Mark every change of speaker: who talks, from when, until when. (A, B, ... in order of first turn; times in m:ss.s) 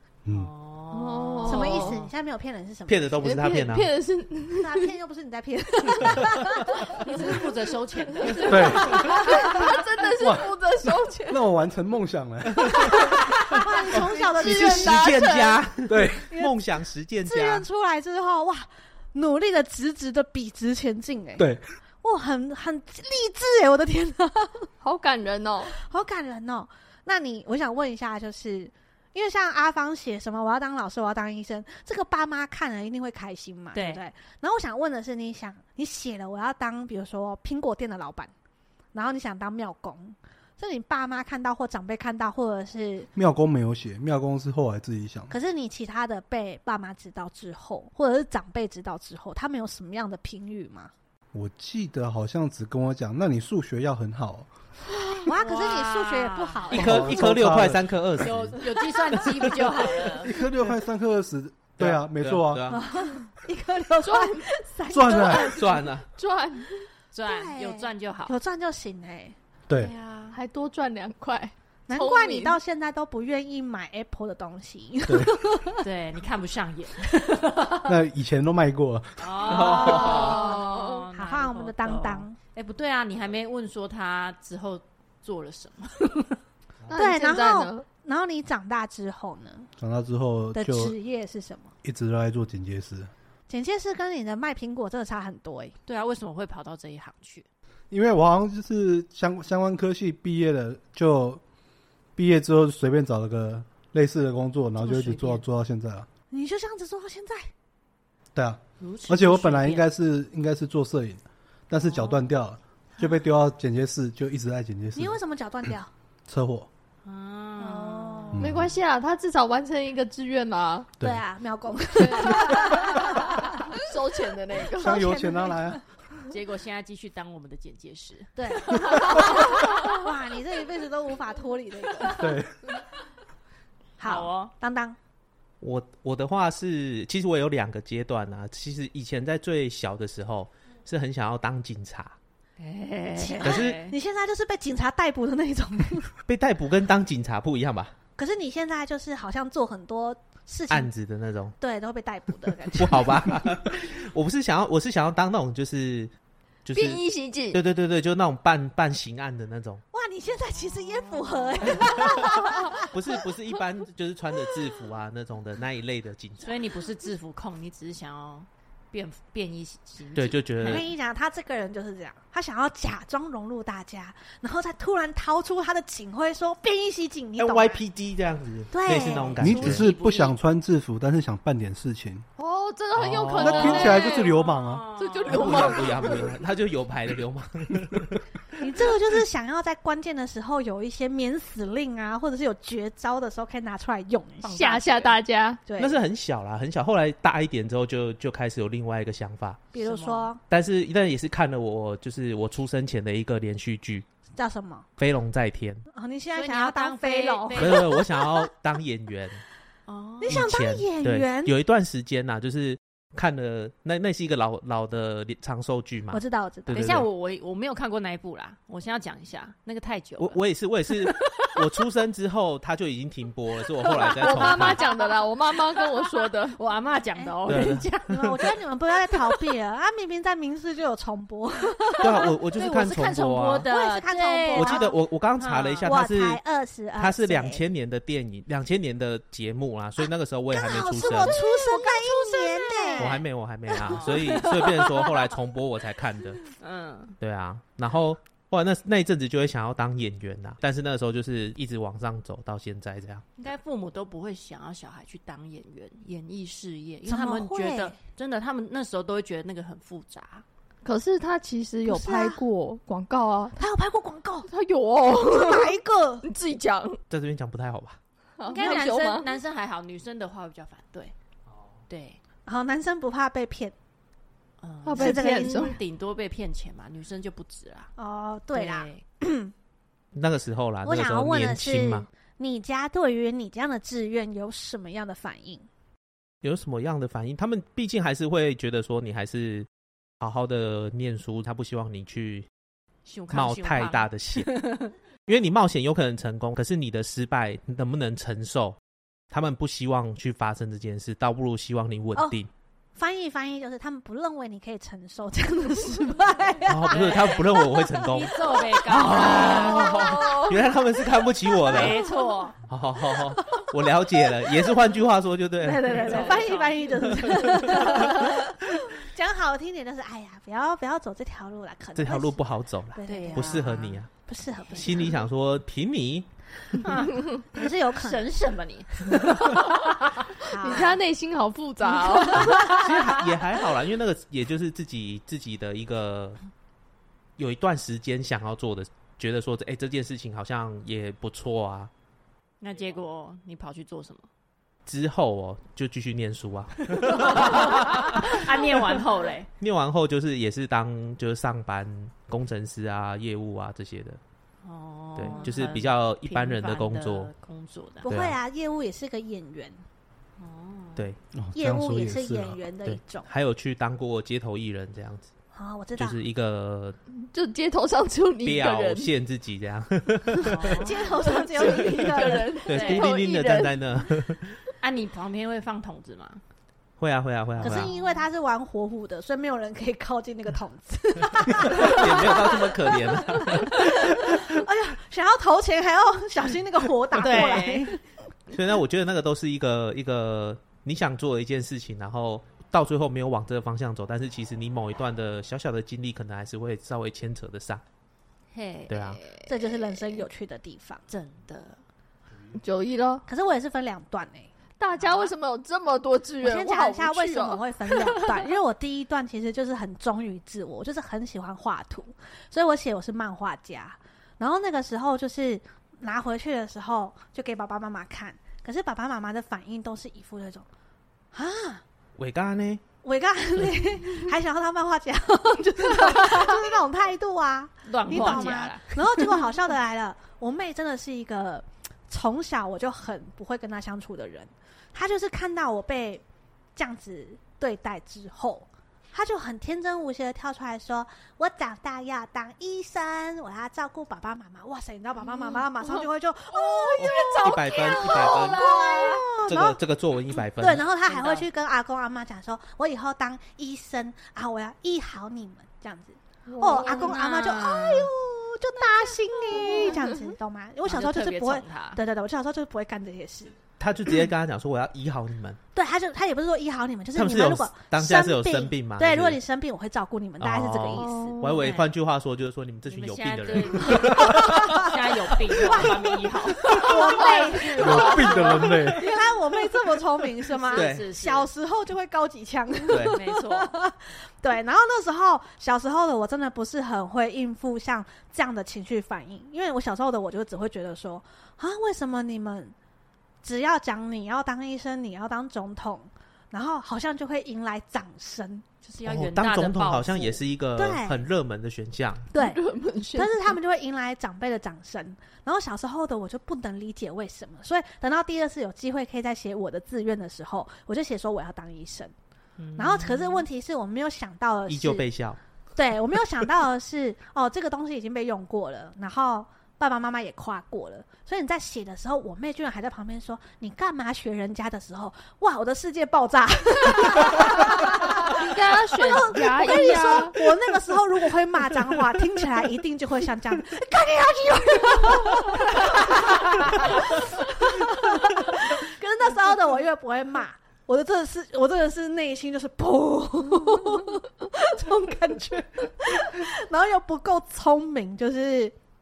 0:00.2-0:00.5 A
0:00.3-0:02.1 B
0:00.9-0:02.0 C
0:01.4-0:03.3 D
0:02.9-0:03.9 E
0:03.2-0:04.9 C
0:04.6-0:07.4 D
0:06.9-0:09.6 B
0:08.2-0:11.4 C
0:08.5-0:09.0 A
0:08.8-0:09.7 D
0:10.2-0:10.5 A
0:11.3-0:12.9 A
0:12.6-0:17.6 E
0:13.3-0:15.3 D
0:14.4-0:15.6 C
0:15.9-0:16.3 A
0:17.2-0:21.4 D
0:21.4-0:21.6 A
0:22.0-0:24.7 D
0:24.8-0:25.8 C
0:25.7-0:38.3 D
0:33.7-0:34.0 B
0:38.9-0:43.1 D
0:43.2-0:45.3 A
0:45.3-0:50.9 D
0:51.3-0:54.5 A
0:55.0-0:55.3 C
0:55.2-0:57.3 D
0:55.3-0:56.8 B
0:56.7-0:58.6 E
0:56.7-0:57.9 A
0:58.2-1:00.4 B
0:59.3-0:59.8 D
1:00.2-1:02.8 A
1:01.8-1:02.8 E
1:02.7-1:05.9 D
1:04.0-1:04.4 C
1:04.9-1:05.5 A
1:05.4-1:06.1 E
1:06.2-1:06.9 C
1:07.1-1:08.4 B
1:07.2-1:09.4 D
1:09.8-1:10.4 B
1:10.3-1:12.6 C
1:11.9-1:15.9 D
1:15.1-1:15.4 A
1:15.8-1:17.9 B
1:17.8-1:19.3 A
1:19.2-1:26.4 B
1:19.4-1:20.5 E
1:20.1-1:21.0 C
1:21.1-1:22.4 D
1:26.9-1:27.8 C
1:27.0-1:29.7 D
1:29.8-1:30.9 A
1:30.5-1:31.7 D
1:31.8-1:33.1 A
1:33.5-1:35.8 D
1:35.9-1:37.5 B
1:37.9-1:41.4 A
1:42.2-1:46.1 A
1:44.8-1:45.4 B
1:46.3-1:47.5 D
1:48.4-1:55.2 A
1:48.8-1:49.9 B
1:51.8-1:52.3 B
1:55.0-1:55.9 D
1:56.3-1:56.7 A
1:57.0-1:58.4 B
1:57.6-1:58.4 D
1:58.3-2:00.9 C
1:58.4-1:58.8 A
2:01.0-2:03.8 D
2:02.0-2:05.1 C
2:04.8-2:05.8 D
2:04.8-2:05.8 A
2:06.3-2:09.9 B
2:08.4-2:12.4 D
2:12.1-2:12.5 A
2:14.0-2:15.0 D
2:14.0-2:14.5 B
2:15.6-2:22.2 E
2:22.6-2:24.0 B
2:23.2-2:26.1 D
2:23.4-2:23.8 E
2:26.3-2:27.9 E
2:28.2-2:30.9 D
2:30.7-2:31.6 E
2:31.6-2:33.4 D
2:32.7-2:36.1 E
2:36.6-2:39.8 E
2:36.7-2:37.6 C
2:39.9-2:43.2 D
2:40.5-2:42.3 B
2:41.8-2:46.6 E
2:46.4-2:50.9 B
2:50.2-2:50.9 E
2:50.6-2:57.8 D
2:57.4-2:59.9 E
2:58.7-2:59.4 D
2:58.9-3:00.4 B
2:59.4-3:02.3 A
3:02.4-3:04.4 C
3:03.0-3:03.9 E
3:03.3-3:04.9 A
3:03.5-3:06.2 B
3:05.0-3:06.3 C
3:05.3-3:08.2 E
3:08.6-3:14.6 D
3:14.4-3:15.2 B
3:14.5-3:15.6 C
3:15.7-3:16.0 D
3:15.8-3:19.6 E
3:19.7-3:20.4 D
3:19.8-3:20.3 B
3:20.5-3:24.1 E
3:24.4-3:24.9 D
3:25.0-3:25.8 E
3:25.9-3:28.5 D
3:26.4-3:27.9 B
3:27.6-3:29.4 E
3:29.9-3:30.5 B
3:30.2-3:31.6 D
3:30.2-3:37.1 E
3:36.1-3:36.8 D
3:36.7-3:41.5 B
3:40.2-3:44.8 E
3:43.8-3:48.5 B
3:44.1-3:46.6 C
3:47.2-3:52.3 D
3:47.5-3:48.3 E
3:49.1-3:49.5 B
3:51.9-3:55.9 B
3:52.0-3:53.7 E
3:53.6-3:54.9 D
3:54.5-3:56.4 E
3:55.8-3:57.6 D
3:57.0-4:01.4 E
4:00.5-4:03.2 D
4:01.0-4:05.3 B
4:03.0-4:06.4 E
4:06.5-4:07.2 B
4:07.2-4:13.2 E
4:13.4-4:20.4 B
4:17.1-4:18.0 D
4:20.8-4:23.6 C
4:21.9-4:22.4 D
4:23.6-4:24.5 D
4:24.5-4:27.0 C
4:25.2-4:26.2 D
4:27.1-4:28.0 E
4:28.4-4:29.3 C
4:28.5-4:31.1 B
4:31.9-4:32.2 B
4:32.5-4:33.7 D
4:34.6-4:37.9 B
4:34.8-4:35.8 C
4:34.9-4:35.7 D
4:38.0-4:39.5 D
4:38.5-4:39.0 B
4:40.1-4:42.1 E
4:40.8-4:45.7 D
4:46.4-4:49.7 E
4:50.2-4:52.5 E
4:53.1-4:54.9 B
4:53.3-4:54.5 E
4:55.3-4:58.8 E
4:59.3-5:02.5 E
5:03.0-5:08.1 D
5:06.7-5:12.0 E
5:06.9-5:10.4 B
5:08.9-5:10.5 D
5:09.9-5:10.5 C
5:11.6-5:12.6 B
5:11.7-5:12.5 D
5:12.7-5:16.5 E
5:13.1-5:14.8 D
5:15.6-5:22.4 D
5:15.7-5:18.2 B
5:17.7-5:18.2 E
5:22.0-5:24.1 E
5:22.9-5:25.2 D
5:23.0-5:24.0 B
5:24.8-5:26.9 E
5:24.8-5:25.0 B
5:26.8-5:30.3 B
5:27.5-5:28.3 D
5:30.5-5:31.0 D
5:30.5-5:32.8 C
5:32.1-5:32.8 D
5:32.3-5:33.4 B
5:32.4-5:36.4 E
5:37.4-5:41.9 E
5:42.6-5:44.3 B
5:44.9-5:48.5 E
5:47.0-5:49.5 B
5:49.6-5:54.2 E
5:54.6-5:58.1 B
5:55.2-5:57.3 E
5:58.0-5:59.8 D
5:58.1-5:58.4 E
6:00.4-6:01.1 B
6:01.3-6:02.6 A
6:01.6-6:03.3 D
6:02.8-6:05.3 E
6:05.5-6:06.2 D
6:06.0-6:07.0 E
6:07.2-6:09.1 C
6:08.4-6:10.9 E
6:10.4-6:11.3 B
6:10.7-6:12.7 D
6:11.3-6:13.8 C
6:12.6-6:14.6 E
6:12.7-6:13.1 B
6:14.8-6:16.4 B
6:17.0-6:17.9 E
6:17.6-6:18.3 B
6:17.6-6:28.0 D
6:21.7-6:24.5 E
6:27.1-6:28.0 B
6:28.5-6:37.8 E
6:38.5-6:40.2 B
6:38.9-6:39.2 E
6:39.4-6:41.0 D
6:41.1-6:41.8 B
6:42.6-6:43.2 C
6:43.3-6:44.5 D
6:44.8-6:48.4 C
6:45.0-6:45.3 B
6:46.4-7:00.7 D
7:01.3-7:01.8 D
7:02.2-7:02.8 E
7:03.0-7:16.2 D
7:07.8-7:09.3 B
7:16.8-7:29.8 D
7:26.5-7:29.4 B
7:27.0-7:28.7 E
7:29.4-7:30.8 E
7:30.4-7:43.6 D
7:31.0-7:31.5 B
7:36.5-7:37.1 C
7:36.7-7:38.1 B
7:39.6-7:39.9 B
7:40.8-7:42.0 B
7:43.8-7:45.6 E
7:45.7-7:51.4 D
7:47.2-7:49.4 E
7:50.4-7:55.8 E
7:51.0-7:51.6 C
7:51.5-7:51.9 B
7:52.9-7:59.1 B
7:53.9-7:54.9 D
7:55.6-7:56.1 D
7:56.6-8:12.8 D
7:57.2-7:57.6 C
7:57.8-7:59.1 A
8:00.5-8:01.5 B
8:00.7-8:01.1 E
8:02.9-8:03.2 E
8:03.1-8:03.8 B
8:13.4-8:18.6 D
8:18.8-8:20.4 B
8:19.0-8:22.3 E
8:20.8-8:21.2 D
8:22.3-8:22.6 D
8:22.4-8:23.5 C
8:23.1-8:32.1 D
8:32.6-8:33.5 B
8:32.8-8:35.1 D
8:34.7-8:35.4 E
8:35.8-8:48.4 D
8:48.3-8:50.4 C
8:49.0-9:08.8 D